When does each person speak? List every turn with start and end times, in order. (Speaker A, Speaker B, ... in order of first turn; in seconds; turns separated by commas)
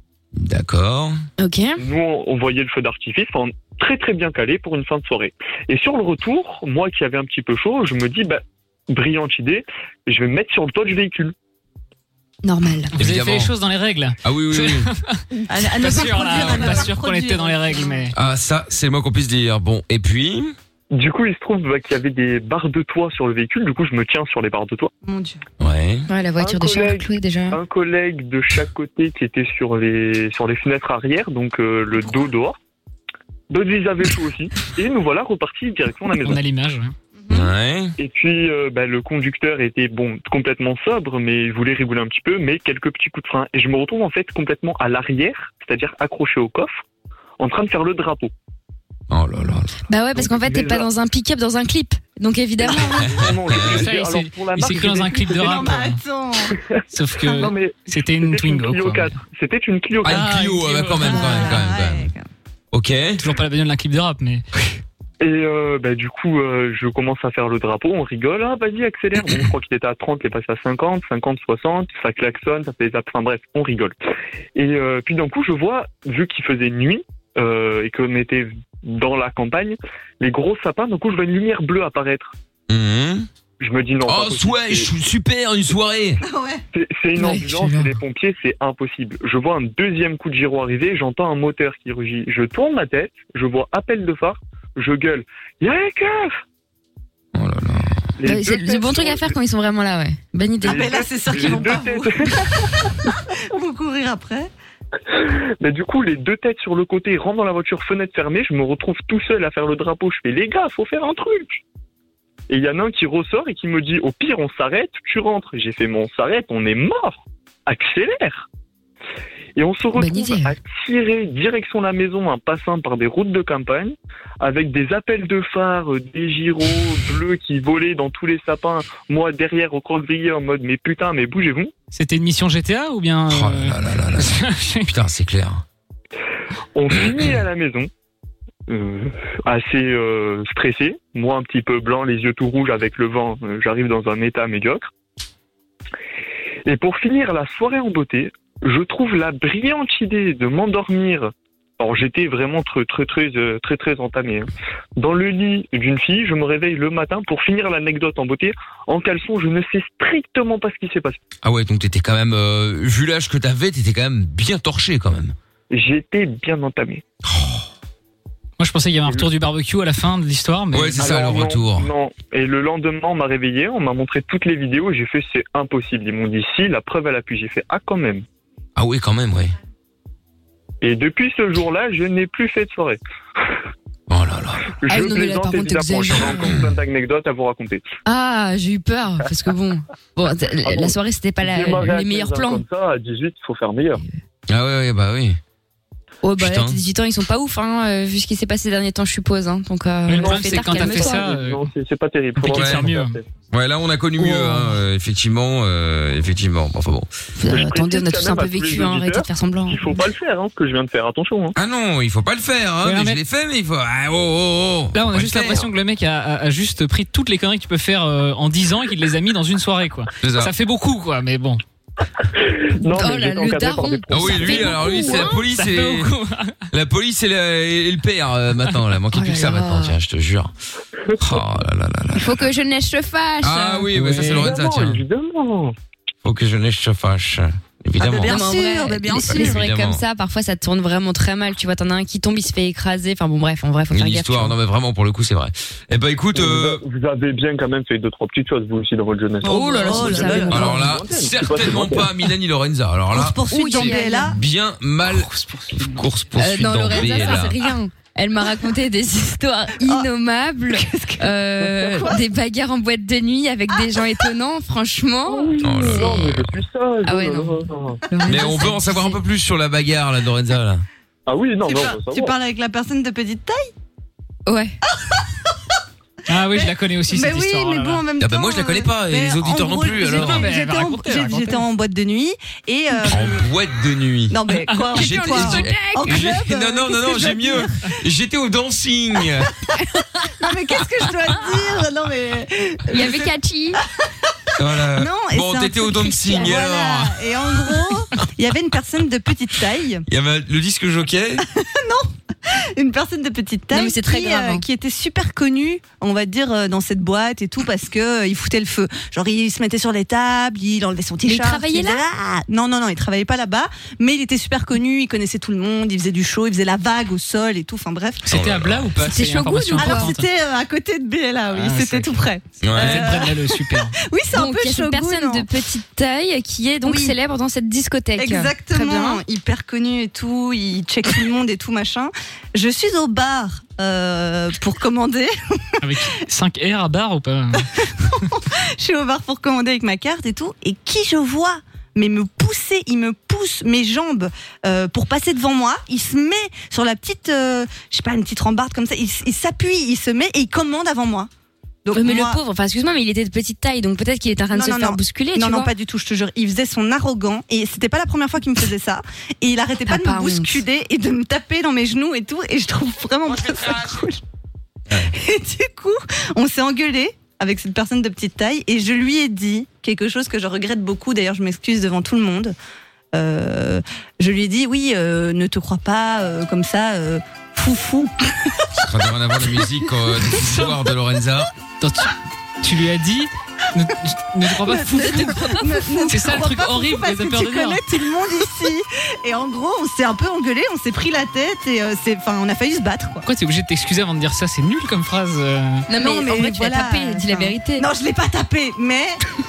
Speaker A: 0.3-1.2, Speaker B: 1.4-1.8, Speaker C: 1.8-11.3, Speaker B: 12.4-12.9, Speaker D: 13.0-18.1, Speaker A: 13.0-13.5, Speaker A: 14.2-14.9, Speaker E: 15.5-18.0, Speaker A: 18.1-20.5, Speaker C: 20.9-24.9, Speaker E: 25.0-25.4, Speaker A: 25.6-26.1, Speaker B: 26.1-27.6, Speaker C: 26.4-32.5, Speaker C: 33.5-36.4, Speaker D: 36.1-36.9, Speaker E: 37.2-37.5, Speaker A: 37.3-37.9, Speaker C: 38.0-46.7, Speaker C: 47.4-48.3, Speaker A: 49.1-49.7, Speaker B: 49.9-53.0, Speaker C: 50.2-50.9, Speaker C: 52.6-55.6, Speaker A: 53.1-53.8, Speaker D: 53.5-56.0, Speaker E: 54.8-56.5, Speaker C: 56.5-60.2, Speaker D: 56.9-59.2, Speaker A: 60.0-62.1, Speaker D: 60.0-61.6, Speaker E: 61.0-62.3, Speaker A: 62.7-63.2, Speaker D: 63.2-64.4, Speaker C: 65.2-73.9, Speaker C: 74.5-82.3, Speaker A: 82.7-83.3, Speaker C: 83.6-84.9, Speaker A: 84.0-86.2, Speaker E: 86.2-86.6, Speaker C: 86.7-96.4, Speaker B: 87.2-87.9, Speaker A: 97.3-98.0, Speaker C: 98.2-99.3, Speaker B: 98.2-100.9, Speaker C: 100.6-102.4, Speaker E: 100.6-102.7, Speaker B: 101.5-101.8, Speaker E: 103.3-104.5, Speaker C: 105.1-111.5, Speaker C: 112.5-118.5, Speaker C: 119.5-131.7, Speaker B: 120.0-120.5, Speaker D: 131.9-134.9, Speaker A: 133.3-135.6, Speaker C: 136.8-137.9, Speaker A: 137.0-137.3, Speaker C: 138.7-144.8, Speaker C: 146.7-161.2, Speaker A: 161.4-165.3, Speaker C: 165.7-167.0, Speaker A: 167.2-167.7, Speaker D: 168.6-171.2, Speaker A: 170.7-171.9, Speaker C: 171.0-178.2, Speaker A: 178.8-179.5, Speaker C: 180.8-183.0, Speaker A: 184.1-184.6, Speaker C: 184.8-187.8, Speaker B: 184.9-186.5, Speaker A: 186.2-186.7, Speaker B: 188.1-192.6, Speaker C: 190.7-194.0, Speaker A: 194.5-195.4, Speaker B: 196.2-201.2, Speaker A: 196.4-196.8, Speaker D: 200.1-201.7, Speaker C: 200.1-203.2, Speaker D: 202.4-203.2, Speaker A: 202.4-202.9, Speaker A: 203.5-207.1, Speaker B: 204.2-204.6, Speaker B: 207.4-210.0, Speaker C: 207.5-211.5, Speaker A: 211.6-215.7, Speaker D: 212.8-213.2, Speaker D: 214.9-221.6, Speaker A: 220.2-220.5, Speaker C: 222.3-225.2, Speaker B: 222.8-225.3, Speaker A: 224.1-226.1, Speaker D: 225.1-226.6, Speaker A: 226.7-230.5, Speaker B: 229.1-229.9, Speaker A: 231.2-232.4, Speaker B: 232.1-233.9, Speaker A: 233.4-235.0, Speaker D: 233.9-234.5, Speaker C: 234.2-235.7, Speaker A: 236.2-238.4, Speaker E: 238.0-239.6, Speaker B: 238.3-244.6, Speaker A: 239.2-240.0, Speaker A: 243.9-246.8, Speaker C: 246.3-252.1, Speaker E: 249.4-250.8, Speaker B: 249.4-250.8, Speaker A: 250.5-257.6, Speaker E: 253.1-254.3, Speaker B: 253.5-254.3, Speaker D: 255.2-255.8, Speaker B: 256.4-265.5, Speaker E: 259.8-260.1, Speaker E: 260.7-261.3, Speaker E: 261.9-262.2, Speaker C: 265.3-268.0, Speaker A: 265.6-266.6, Speaker B: 267.0-269.2, Speaker A: 268.2-270.8, Speaker C: 271.3-272.3, Speaker E: 271.6-273.7, Speaker B: 274.5-274.8, Speaker D: 276.3-278.0, Speaker E: 276.5-283.4, Speaker A: 278.2-280.5, Speaker D: 280.0-281.7, Speaker A: 283.1-284.4, Speaker E: 284.3-287.8, Speaker A: 284.9-289.5, Speaker B: 284.9-286.2, Speaker E: 290.4-293.1, Speaker B: 292.9-293.8, Speaker A: 294.6-297.3, Speaker E: 294.9-300.0, Speaker A: 300.1-301.4, Speaker E: 301.4-302.1, Speaker E: 302.8-318.2, Speaker B: 303.7-304.6, Speaker B: 311.2-312.0, Speaker D: 318.2-320.3, Speaker A: 318.3-318.9, Speaker B: 319.0-320.1, Speaker E: 319.8-325.5, Speaker D: 321.5-322.2, Speaker A: 322.6-323.1, Speaker D: 322.7-323.9, Speaker B: 324.3-329.2, Speaker E: 326.8-327.1, Speaker E: 328.2-335.3, Speaker D: 335.8-337.7, Speaker E: 337.8-351.3, Speaker E: 351.8-352.4, Speaker B: 351.9-355.7, Speaker E: 354.5-364.2, Speaker B: 359.9-360.6, Speaker E: 365.0-372.5, Speaker E: 373.1-378.9, Speaker A: 378.8-381.5, Speaker D: 381.8-385.4, Speaker E: 384.6-393.2, Speaker B: 385.0-386.2, Speaker D: 386.1-387.8, Speaker D: 393.2-395.9, Speaker B: 395.9-397.9, Speaker E: 395.9-399.2